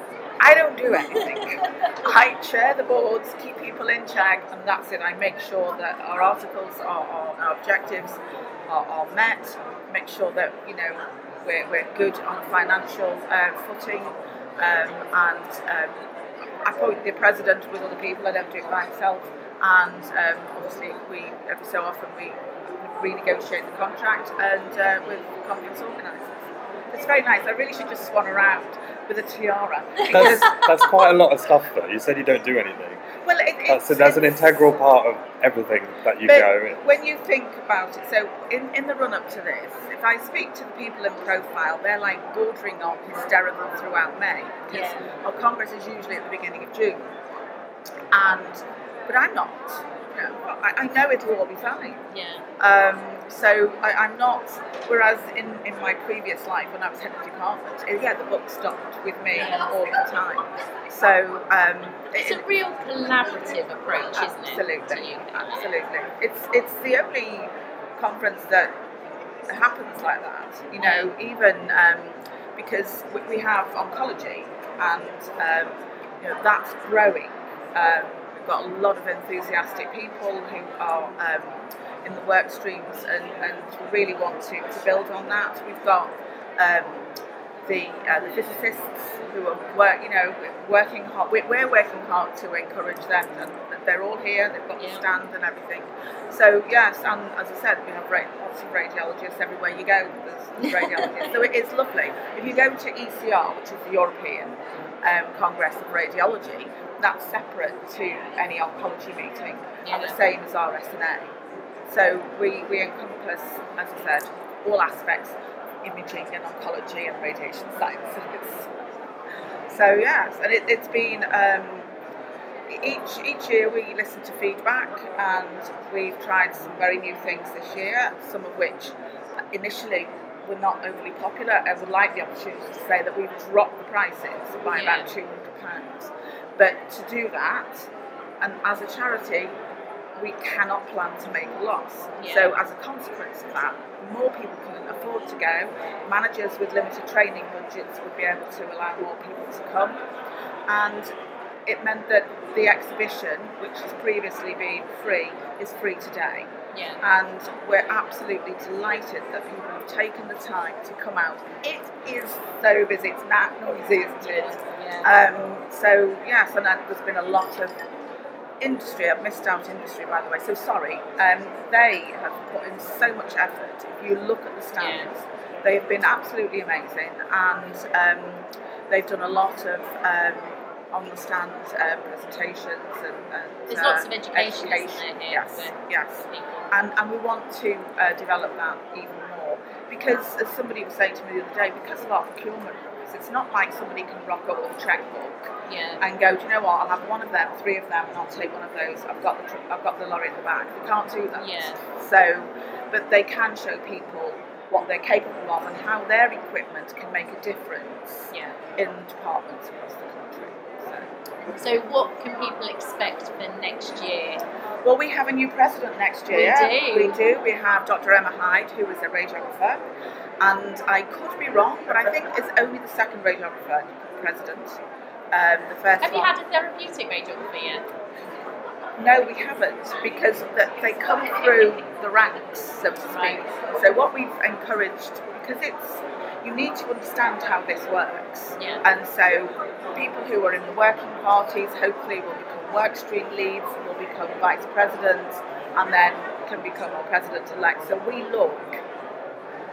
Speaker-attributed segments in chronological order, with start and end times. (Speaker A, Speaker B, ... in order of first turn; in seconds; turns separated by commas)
Speaker A: 0.4-15.9, Speaker A: 16.6-26.3, Speaker A: 26.9-30.6, Speaker B: 30.1-33.0, Speaker A: 33.2-34.8, Speaker B: 33.7-36.8, Speaker A: 36.2-47.1, Speaker C: 44.7-45.0, Speaker A: 48.1-52.0, Speaker C: 52.1-52.4, Speaker A: 52.6-62.4, Speaker C: 59.3-59.7, Speaker C: 62.1-65.6, Speaker A: 64.1-68.7, Speaker A: 69.5-87.1, Speaker C: 70.8-71.1, Speaker A: 87.6-111.3, Speaker C: 100.7-101.2, Speaker C: 108.0-108.3, Speaker C: 109.8-110.2, Speaker A: 111.9-118.9, Speaker A: 119.7-121.9, Speaker A: 122.7-128.9, Speaker A: 129.5-137.9, Speaker C: 134.7-135.1, Speaker A: 138.4-139.5, Speaker A: 140.2-150.0, Speaker C: 142.2-142.6, Speaker A: 150.7-151.1, Speaker A: 151.7-156.5, Speaker C: 156.7-157.0, Speaker A: 157.0-167.7, Speaker C: 164.2-165.1, Speaker A: 168.6-211.1, Speaker C: 174.8-175.1, Speaker C: 183.7-186.7, Speaker C: 195.7-196.0, Speaker C: 201.3-201.8, Speaker C: 208.3-208.6, Speaker C: 211.6-214.4, Speaker A: 214.8-219.8, Speaker C: 216.3-217.2, Speaker A: 220.4-224.8, Speaker A: 225.3-226.3, Speaker C: 226.0-227.8, Speaker A: 229.0-248.8, Speaker C: 233.1-233.4, Speaker C: 238.6-238.8